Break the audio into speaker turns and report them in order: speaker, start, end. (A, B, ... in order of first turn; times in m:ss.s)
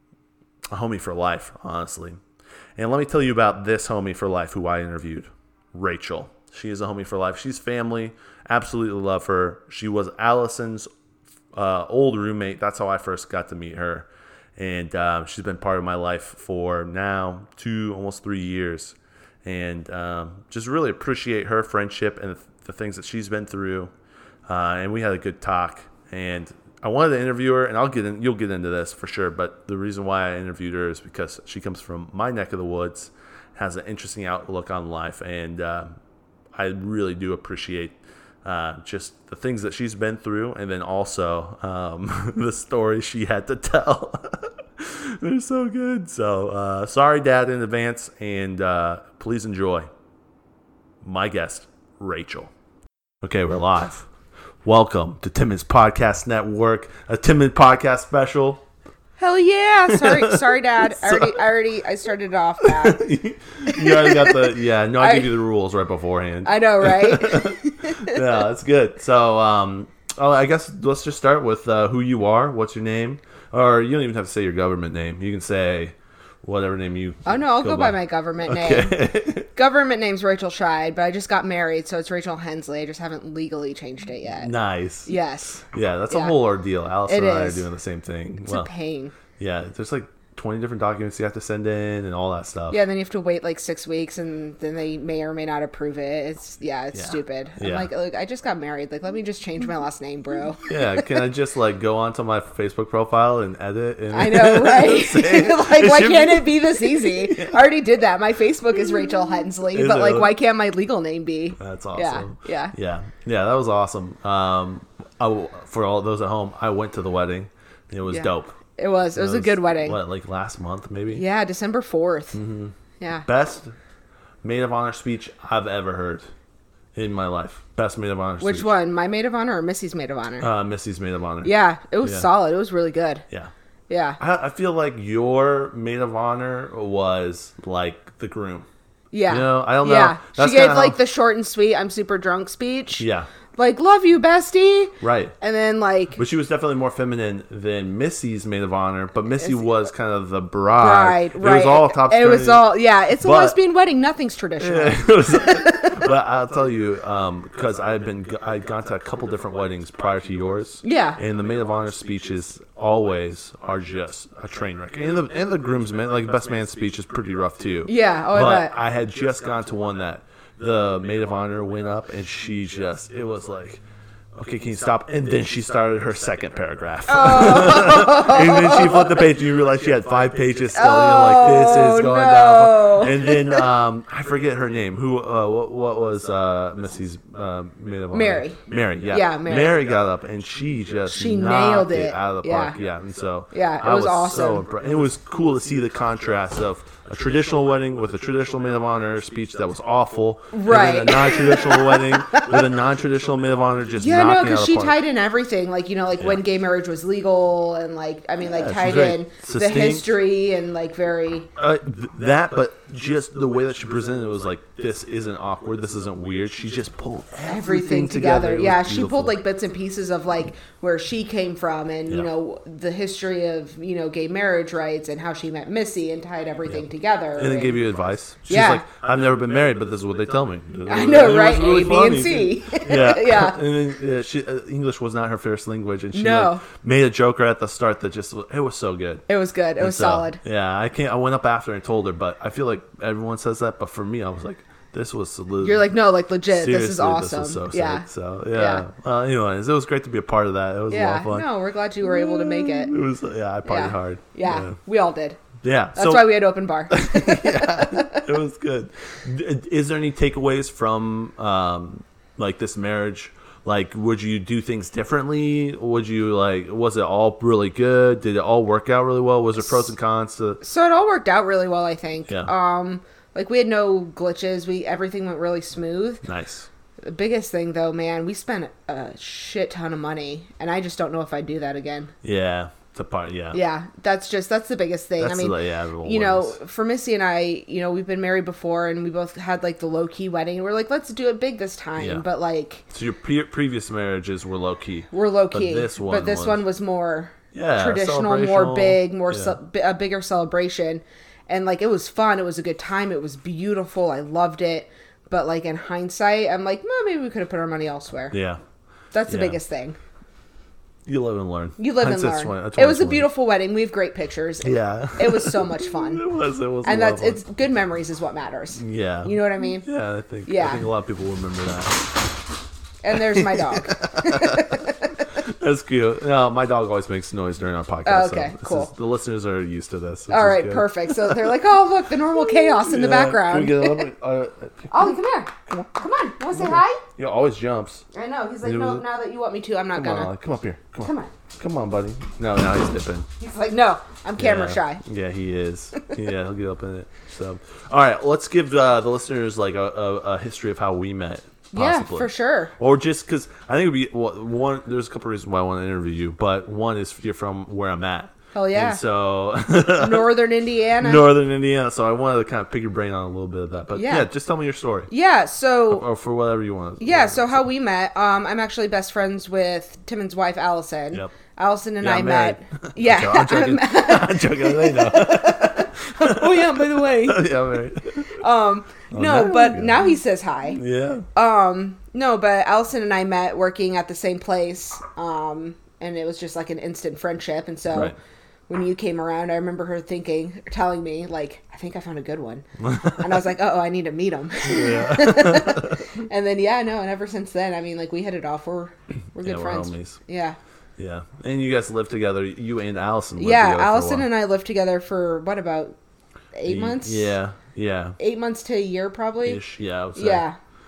0:00.7-0:02.2 A
0:02.8-0:10.9 A
0:11.5-0:23.9 A
0:24.5-0:36.0 A
0:36.5-0:49.9 A
0:51.0-0:52.5 A
0:53.2-0:54.1 A
0:54.6-0:58.6 A
0:59.2-1:03.0 B
0:59.9-1:01.4 A
1:02.6-1:19.5 A
1:03.6-1:05.4 B
1:06.4-1:08.2 B
1:17.2-1:24.5 B
1:24.4-1:25.1 A
1:25.0-1:26.3 B
1:25.7-1:28.7 A
1:27.1-1:27.6 B
1:28.4-1:29.1 B
1:29.4-1:32.8 A
1:32.7-1:40.6 B
1:36.9-1:37.9 A
1:40.6-1:47.6 A
1:44.1-1:52.7 B
1:49.7-1:50.3 A
1:51.6-1:58.6 A
1:58.1-2:00.0 B
1:59.1-2:01.2 A
2:01.1-2:02.4 B
2:02.3-2:03.7 A
2:03.0-2:03.2 B
2:04.4-2:06.3 A
2:06.9-2:08.7 A
2:08.4-2:10.5 B
2:10.4-2:11.5 A
2:11.4-2:13.2 B
2:12.0-2:12.3 A
2:13.9-2:14.2 B
2:14.2-2:18.7 A
2:19.1-2:26.2 B
2:19.3-2:21.0 A
2:23.0-2:23.3 A
2:25.0-2:25.3 A
2:26.2-2:33.6 A
2:30.8-2:36.1 B
2:34.6-2:53.8 A
2:40.8-2:41.2 B
2:47.8-2:48.7 B
2:54.3-3:24.9 A
2:57.1-2:59.3 B
3:00.7-3:03.7 B
3:08.1-3:09.8 B
3:11.1-3:12.8 B
3:13.5-3:14.6 B
3:20.5-3:22.7 B
3:24.0-3:31.5 B
3:28.4-3:30.1 A
3:31.6-3:39.3 A
3:37.4-3:47.8 B
3:47.4-3:59.2 A
3:48.5-3:48.8 B
3:50.9-3:53.6 B
3:56.1-3:56.6 B
3:59.3-4:00.4 B
3:59.8-4:05.9 A
4:05.6-4:08.8 B
4:06.5-4:11.5 A
4:10.9-4:12.9 B
4:12.0-4:14.8 A
4:13.6-4:18.3 B
4:15.6-4:30.6 A
4:30.6-4:36.2 B
4:36.2-4:36.7 A
4:37.0-4:42.1 B
4:42.2-4:43.6 A
4:43.5-4:52.8 B
4:45.2-4:46.6 A
4:52.0-4:52.2 A
4:52.9-4:56.6 A
4:55.1-5:08.3 B
4:57.5-4:59.6 A
5:08.3-5:08.6 A
5:09.1-5:10.0 B
5:09.2-5:09.6 A
5:11.1-5:13.3 A
5:11.8-5:16.2 B
5:14.6-5:17.4 A
5:16.8-5:19.9 B
5:18.8-5:22.2 A
5:20.4-5:20.8 B
5:23.0-5:25.1 B
5:23.3-5:31.5 A
5:28.0-5:28.9 B
5:30.3-5:34.1 B
5:32.4-5:35.1 A
5:34.9-5:37.0 B
5:36.5-5:38.0 A
5:38.1-5:40.3 B
5:38.6-5:39.0 A
5:39.9-5:43.3 A
5:41.0-5:41.3 B
5:43.4-5:45.0 B
5:44.4-6:00.3 A
5:51.7-5:52.7 B
5:58.5-5:59.0 B
5:59.9-6:01.3 B
6:01.0-6:05.1 A
6:03.9-6:04.3 B
6:05.1-6:06.0 B
6:05.9-6:07.6 A
6:07.0-6:20.8 B
6:12.0-6:18.4 A
6:19.1-6:20.1 A
6:20.7-6:21.3 A
6:21.3-6:28.1 B
6:27.9-6:28.2 A
6:28.7-6:40.6 B
6:32.8-6:33.3 A
6:34.6-6:36.0 A
6:39.4-6:40.2 A
6:41.0-6:44.3 A
6:43.4-6:46.0 B
6:46.5-6:47.3 B
6:46.6-6:48.2 A
6:48.2-6:49.6 B
6:49.4-6:50.5 A
6:50.1-6:50.6 B